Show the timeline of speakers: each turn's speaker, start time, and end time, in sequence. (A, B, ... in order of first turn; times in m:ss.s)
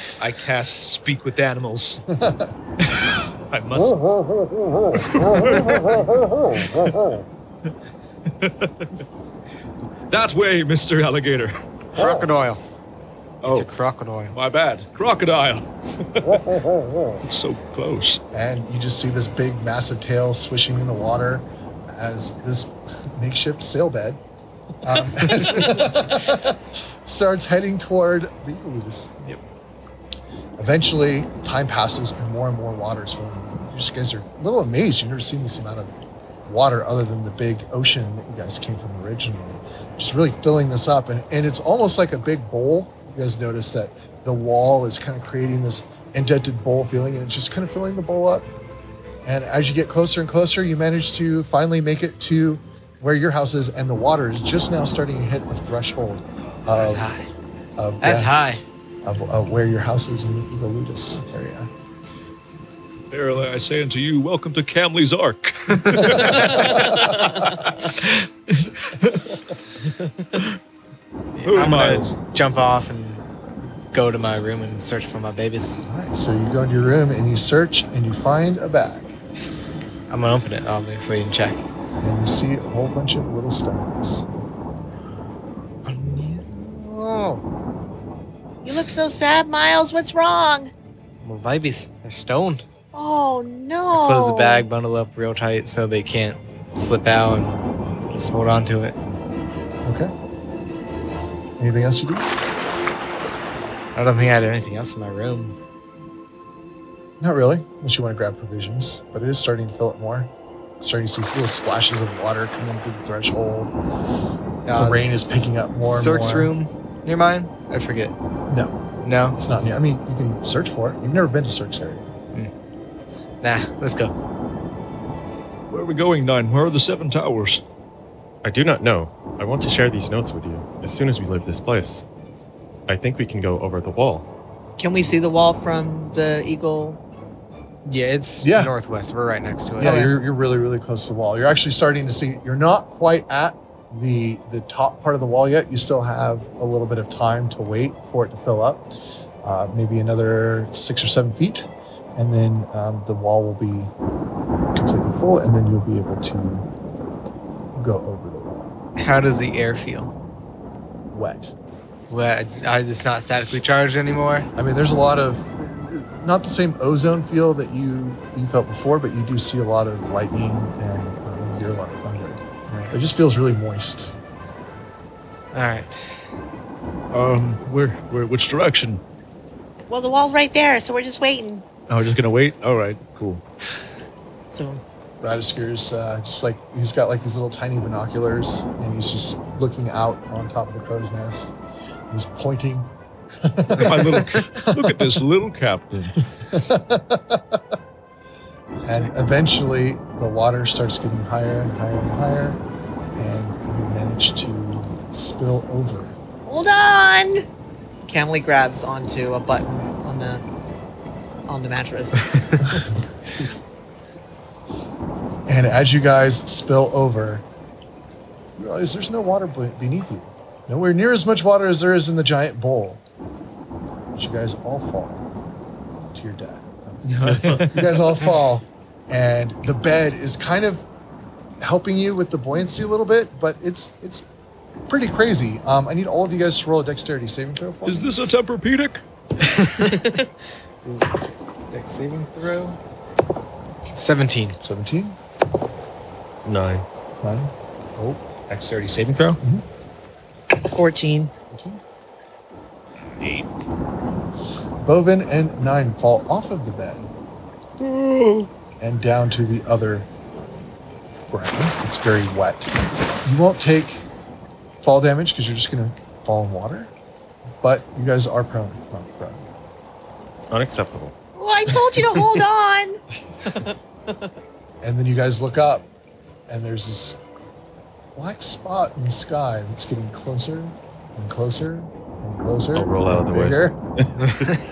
0:00.2-0:02.0 A
0:02.1-0:02.5 B
0:03.5-0:04.0 A
0:04.2-0:07.0 B
0:05.2-0:06.0 C
0:08.4-0:08.7 C
0:10.1-0:11.5 C
0:12.0-0:12.6 D
0:12.0-0:12.3 B
0:13.4-0:13.7 C
0:13.4-0:14.4 D
0:14.3-0:16.6 C
0:17.2-0:18.2 C
0:18.3-0:24.2 B
0:24.8-0:29.2 B
0:30.6-0:35.9 B
0:36.4-0:48.5 B
0:49.2-0:57.1 B
0:56.7-0:57.3 D
0:57.8-0:58.3 B
0:58.0-0:58.6 D
0:59.0-1:01.7 B
1:03.1-1:09.4 C
1:06.2-1:06.9 B
1:11.3-1:13.2 D
1:11.4-1:12.2 C
1:13.9-1:15.8 D
1:15.9-1:19.1 B
1:19.4-1:21.6 D
1:22.0-1:24.3 B
1:25.8-1:27.4 D
1:28.6-1:30.7 E
1:31.2-1:32.6 D
1:32.9-1:34.6 E
1:33.9-1:39.0 D
1:39.8-1:40.1 B
1:41.6-1:42.3 B
1:44.0-1:45.6 D
1:47.2-1:53.7 B
1:54.6-1:58.2 D
1:54.7-1:56.5 B
1:58.5-1:58.8 B
1:59.0-1:59.7 D
1:59.4-2:02.1 B
2:03.4-2:04.1 D
2:05.7-2:07.6 C
2:08.4-2:12.0 F
2:12.9-2:14.3 F
2:14.8-2:17.0 E
2:17.8-2:20.1 D
2:18.4-2:18.7 B
2:19.8-2:28.9 B
2:19.8-2:20.1 E
2:29.4-2:33.9 B
2:34.7-2:36.7 B
2:37.8-2:38.7 B
2:39.0-2:40.1 D
2:41.1-2:41.5 B
2:42.1-2:44.5 D
2:44.6-2:54.1 B
2:52.7-2:53.0 D
2:55.5-2:56.0 D
2:57.1-2:59.0 C
2:59.9-3:01.6 E
3:01.9-3:03.4 C
3:04.5-3:04.8 E
3:05.2-3:11.5 B
3:12.1-3:12.9 B
3:13.4-3:15.2 B
3:13.8-3:16.2 C
3:16.5-3:17.6 B
3:18.8-3:19.1 D
3:18.8-3:22.6 B
3:23.2-3:26.2 B
3:26.4-3:27.4 E
3:28.0-3:30.4 E
3:31.5-3:32.3 E
3:35.5-3:37.4 B
3:38.6-3:43.0 B
3:44.1-3:45.3 B
3:46.1-3:50.8 B
3:47.1-3:47.8 A
3:51.6-3:54.3 B
3:54.9-3:58.3 B
3:57.8-3:59.0 C
3:59.4-4:00.2 D
4:00.8-4:02.8 D
4:03.9-4:04.6 D
4:04.6-4:05.2 B
4:06.4-4:06.8 F
4:07.2-4:08.2 B
4:08.5-4:09.4 A
4:10.7-4:11.3 E
4:11.5-4:11.8 B
4:13.2-4:13.5 A
4:14.8-4:17.0 B
4:17.8-4:18.5 C
4:18.8-4:20.1 B
4:21.3-4:22.7 B
4:23.2-4:24.0 B
4:24.8-4:26.9 B
4:27.6-4:29.5 B
4:30.5-4:31.1 F
4:31.4-4:33.7 E
4:34.8-4:35.9 B
4:36.5-4:37.2 B
4:38.1-4:43.8 B
4:42.7-4:44.6 F